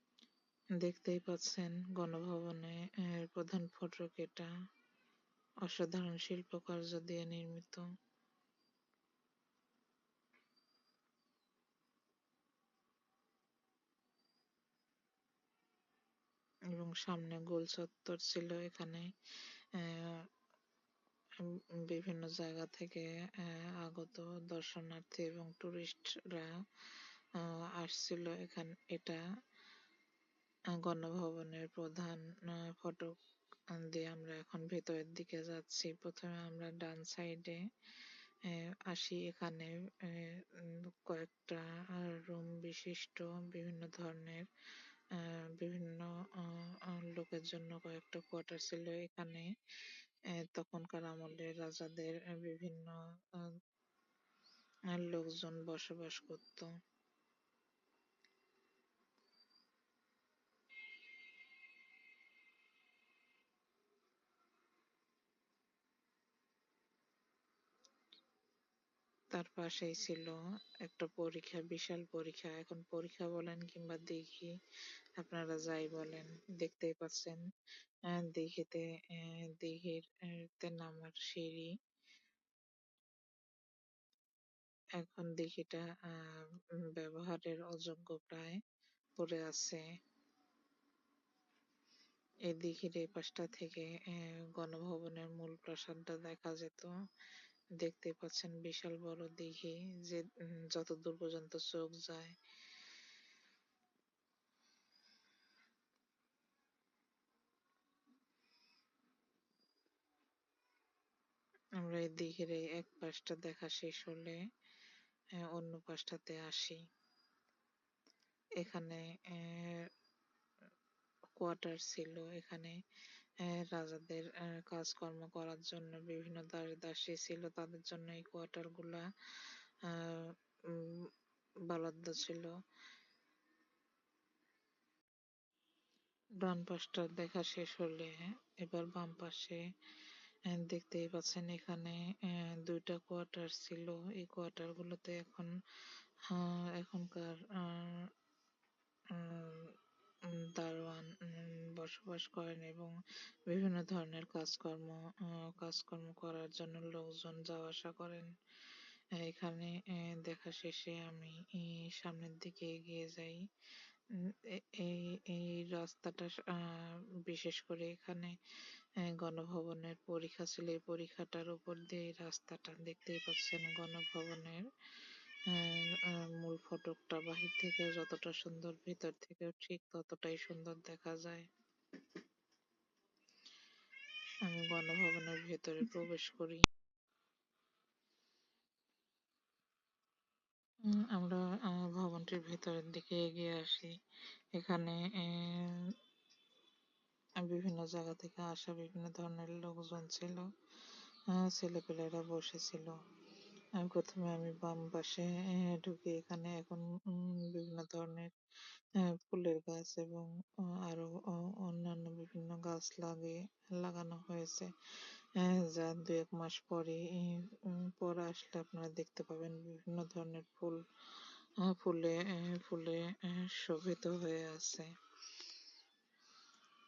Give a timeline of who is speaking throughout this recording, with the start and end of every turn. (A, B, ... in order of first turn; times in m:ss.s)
0:00.8-0:04.5 A
0:05.6-0:07.9 A
0:16.7-0:19.1 A
0:19.7-0:20.3 A
0:21.4-0:26.6 A
0:27.4-0:29.2 A
0:30.7-0:33.2 A
0:33.7-0:37.6 A
0:38.4-0:44.5 A
0:45.1-0:49.5 A
0:50.3-0:53.0 A
0:54.9-0:56.7 A
1:09.3-1:14.5 A
1:15.2-1:17.4 A
1:18.1-1:21.7 A
1:25.0-1:28.6 A
1:29.2-1:29.8 A
1:32.5-1:36.9 A
1:37.8-1:42.3 A
1:51.8-1:54.4 A
1:55.4-1:56.8 A
1:58.6-1:59.9 A
2:01.4-2:02.8 A
2:03.4-2:11.1 A
2:11.7-2:12.6 A
2:16.4-2:19.6 A
2:20.5-2:25.5 A
2:26.3-2:28.1 A
2:29.1-2:29.7 A
2:30.3-2:32.9 A
2:33.5-2:38.3 A
2:39.2-2:43.4 A
2:44.2-2:48.4 A
2:49.0-2:54.6 A
2:55.5-3:01.5 A
3:04.4-3:06.6 A
3:10.9-3:14.0 A
3:14.6-3:15.9 A
3:17.4-3:20.5 A
3:21.3-3:23.0 A
3:23.8-3:28.3 A
3:29.0-3:34.7 A
3:35.4-3:40.8 A
3:41.6-3:44.9 A